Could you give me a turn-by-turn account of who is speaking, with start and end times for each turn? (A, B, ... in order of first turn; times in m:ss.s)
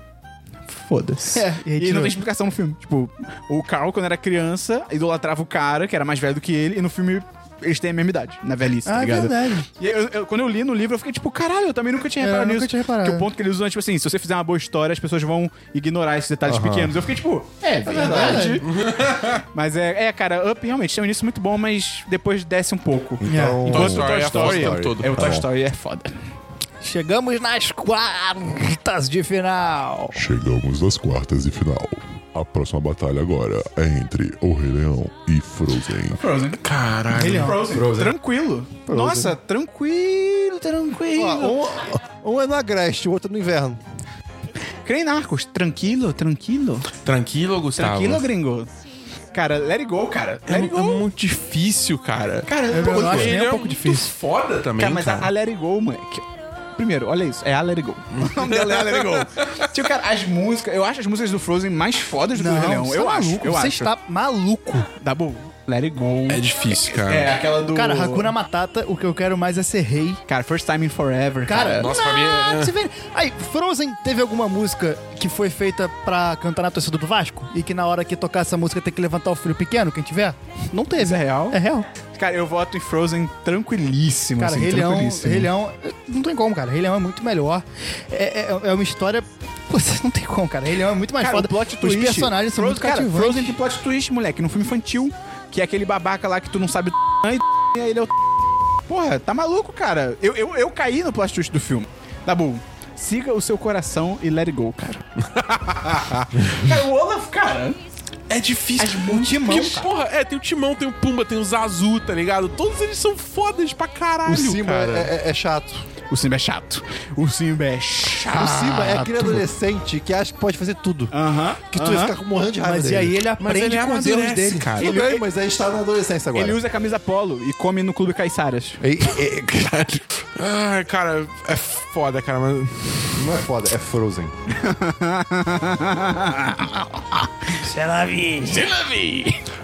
0:00.7-0:18.7 A
0:01.3-0:02.2 B
0:08.8-0:09.6 B
0:12.2-0:13.3 B
0:16.4-0:17.1 C
0:17.9-0:18.6 C
0:17.9-0:18.6 B
0:18.6-0:19.4 D
0:19.5-0:26.1 A
0:23.2-0:25.4 C
0:23.3-0:23.6 B
0:23.6-0:25.1 D
0:26.8-0:30.2 B
0:30.1-0:36.2 E
0:36.2-0:36.6 A
0:36.6-0:37.6 D
0:37.1-0:37.7 B
0:37.2-0:41.6 A
0:37.7-0:38.2 C
0:38.9-0:39.4 C
0:41.1-0:43.8 C
0:44.8-0:46.9 A
0:47.0-0:48.2 D
0:47.7-0:48.7 A
0:49.3-0:51.0 A
0:50.5-0:55.3 D
0:52.4-0:53.4 A
0:52.7-0:54.1 B
0:54.8-1:03.9 A
0:58.1-0:59.6 D
1:02.3-1:04.9 B
1:05.0-1:08.3 A
1:06.3-1:07.4 D
1:07.6-1:10.2 B
1:10.3-1:11.9 A
1:11.4-1:21.9 B
1:11.7-1:12.7 D
1:21.0-1:21.6 A
1:22.1-1:25.5 A
1:24.4-1:33.6 B
1:31.2-1:38.2 A
1:38.9-1:45.0 A
1:45.2-1:46.4 D
1:46.5-1:47.8 A
1:48.3-1:55.1 D
1:48.8-1:49.8 A
1:48.8-1:49.9 B
1:54.2-1:55.8 C
1:56.1-1:58.7 A
1:58.3-2:01.1 C
1:58.3-1:59.4 B
2:01.1-2:02.1 A
2:01.7-2:03.3 C
2:02.6-2:04.7 B
2:03.4-2:05.0 D
2:04.8-2:06.6 C
2:04.8-2:05.2 A
2:06.3-2:08.8 A
2:08.8-2:10.0 C
2:09.8-2:13.3 D
2:13.2-2:14.3 C
2:14.5-2:17.3 A
2:17.6-2:18.6 B
2:18.4-2:19.4 A